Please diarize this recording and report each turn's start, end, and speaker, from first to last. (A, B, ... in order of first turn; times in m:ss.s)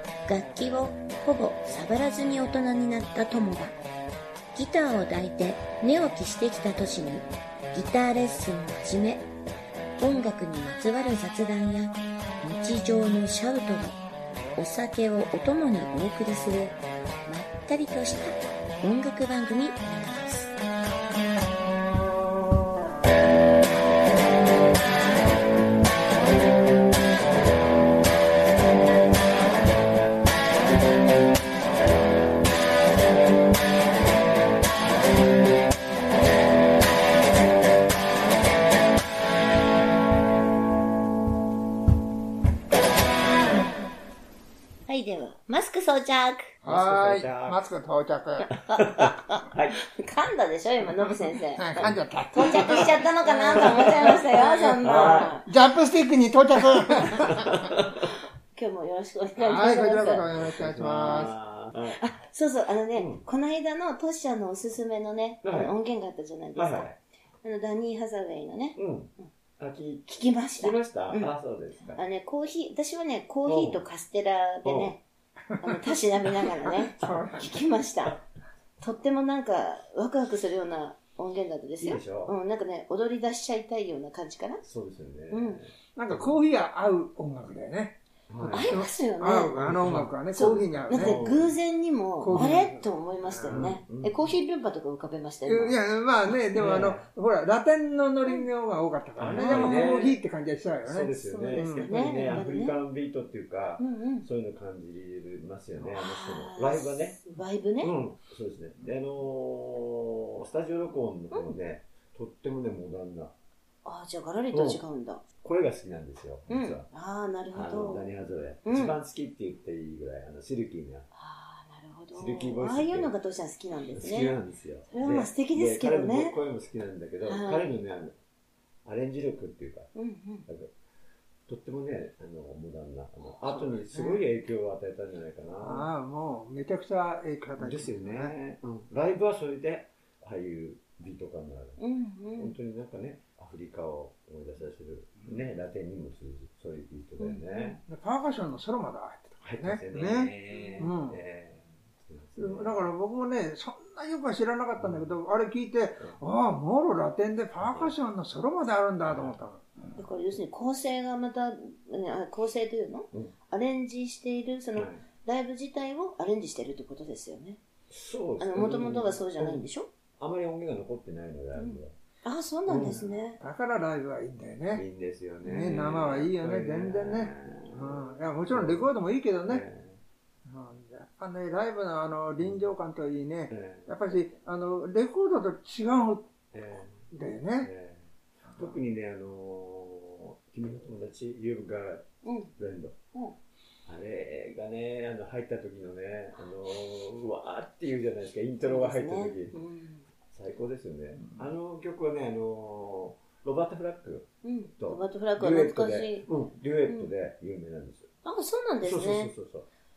0:00.3-0:03.8 A
0:04.6-0:09.2 A
0:10.0-0:14.0 A
0:14.6-0:20.5 A
0:44.9-0:46.5 A
0:46.6-0:47.6 B
0:46.6-0:48.5 C
0:48.5-0:49.8 B
0:48.7-0:55.5 A
0:51.6-0:57.5 C
0:53.3-0:54.2 B
0:54.8-0:55.4 B
0:57.1-0:58.1 B
0:58.6-1:00.3 A
0:59.4-1:01.4 C
1:00.4-1:02.0 B
1:01.9-1:06.9 A
1:03.0-1:03.2 B
1:05.4-1:05.7 B
1:06.6-1:07.0 B
1:07.4-1:09.3 A
1:08.8-1:12.0 B
1:10.1-1:11.3 A
1:11.9-1:15.0 A
1:13.5-1:13.8 B
1:14.6-1:15.0 B
1:15.6-1:18.2 A
1:16.9-1:17.5 C
1:18.8-1:24.6 A
1:21.8-1:22.3 B
1:24.6-1:26.3 B
1:25.3-1:25.6 A
1:26.0-1:31.2 C
1:28.3-1:28.8 B
1:28.5-1:29.6 A
1:29.6-1:31.5 B
1:30.3-1:35.8 A
1:32.2-1:33.6 C
1:32.3-1:32.6 B
1:33.5-1:34.3 B
1:35.5-1:41.9 C
1:36.6-1:37.0 B
1:39.2-1:40.2 B
1:39.3-1:40.0 A
1:40.8-1:47.3 B
1:41.2-1:42.8 A
1:43.8-1:44.3 A
1:46.0-1:47.9 A
1:47.8-1:53.3 B
1:53.8-1:55.2 A
1:54.5-1:54.8 B
1:55.4-1:56.9 B
1:56.5-1:58.1 A
1:57.5-2:01.1 B
1:58.6-1:59.0 A
2:01.2-2:04.4 A
2:02.2-2:03.1 B
2:04.0-2:08.2 B
2:04.9-2:06.4 A
2:07.2-2:07.8 A
2:08.9-2:09.9 B
2:10.0-2:10.4 A
2:11.5-2:15.9 B
2:13.4-2:14.2 C
2:15.6-2:18.3 C
2:17.6-2:21.8 B
2:21.8-2:22.5 A
2:22.4-2:27.8 B
2:27.2-2:27.8 A
2:27.9-2:31.2 C
2:29.4-2:32.8 B
2:30.5-2:30.9 A
2:32.4-2:40.0 C
2:34.8-2:35.1 B
2:37.6-2:38.0 B
2:39.1-2:39.4 B
2:40.0-2:47.6 A
2:47.9-2:49.6 B
2:48.4-2:49.9 A
2:50.2-2:51.9 B
2:51.6-2:53.4 A
2:52.7-2:53.1 B
2:53.4-2:54.8 C
2:54.7-2:58.9 B
2:55.4-2:55.7 A
2:55.5-2:59.6 C
2:59.5-3:00.0 B
3:00.5-3:06.3 C
3:03.5-3:03.9 B
3:06.5-3:07.0 B
3:07.1-3:07.7 C
3:07.6-3:13.0 B
3:12.2-3:12.5 A
3:13.9-3:19.6 B
3:18.7-3:20.0 A
3:20.3-3:28.1 B
3:24.4-3:26.3 A
3:28.2-3:29.3 A
3:28.8-3:29.7 B